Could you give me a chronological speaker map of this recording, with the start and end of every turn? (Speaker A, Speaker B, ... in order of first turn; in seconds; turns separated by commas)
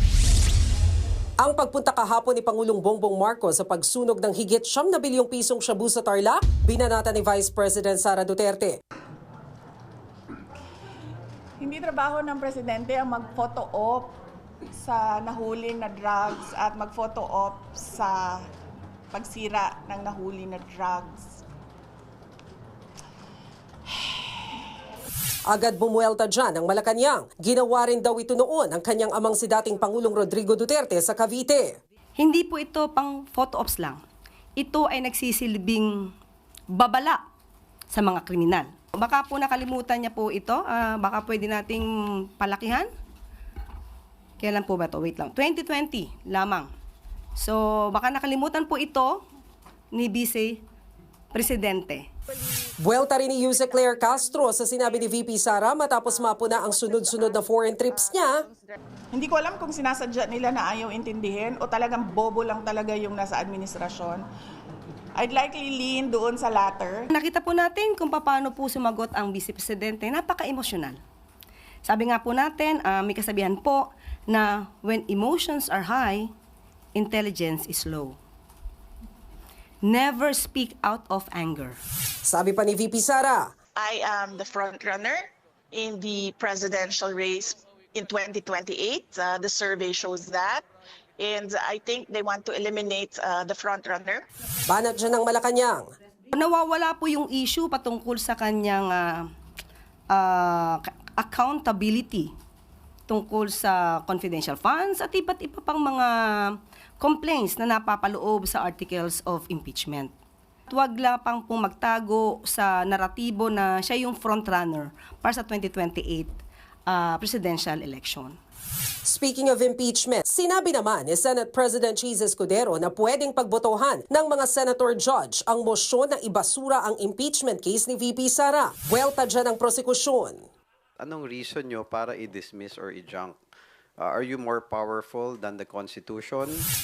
Speaker A: 1.4-8.8, Speaker B: 11.6-14.2, Speaker B: 14.8-18.4, Speaker B: 19.1-21.4, Speaker A: 25.5-31.8, Speaker C: 32.2-34.0, Speaker C: 34.6-36.1, Speaker C: 36.7-37.2, Speaker C: 37.9-42.9, Speaker C: 44.4-46.7, Speaker C: 47.4-49.2, Speaker C: 49.9-50.6, Speaker C: 51.3-52.1, Speaker A: 52.8-58.4, Speaker B: 59.1-64.2, Speaker B: 65.2-67.0, Speaker C: 67.1-71.0, Speaker C: 71.9-76.3, Speaker C: 77.0-78.2, Speaker C: 79.8-81.8, Speaker A: 82.3-83.5, Speaker D: 83.8-90.6, Speaker D: 91.2-94.2, Speaker A: 94.7-95.9, Speaker C: 96.3-99.3, Speaker C: 100.1-102.3, Speaker C: 103.1-110.1, Speaker C: 110.7-118.4, Speaker A: 119.1-130.4, Speaker E: 131.0-133.4, Speaker E: 134.0-136.7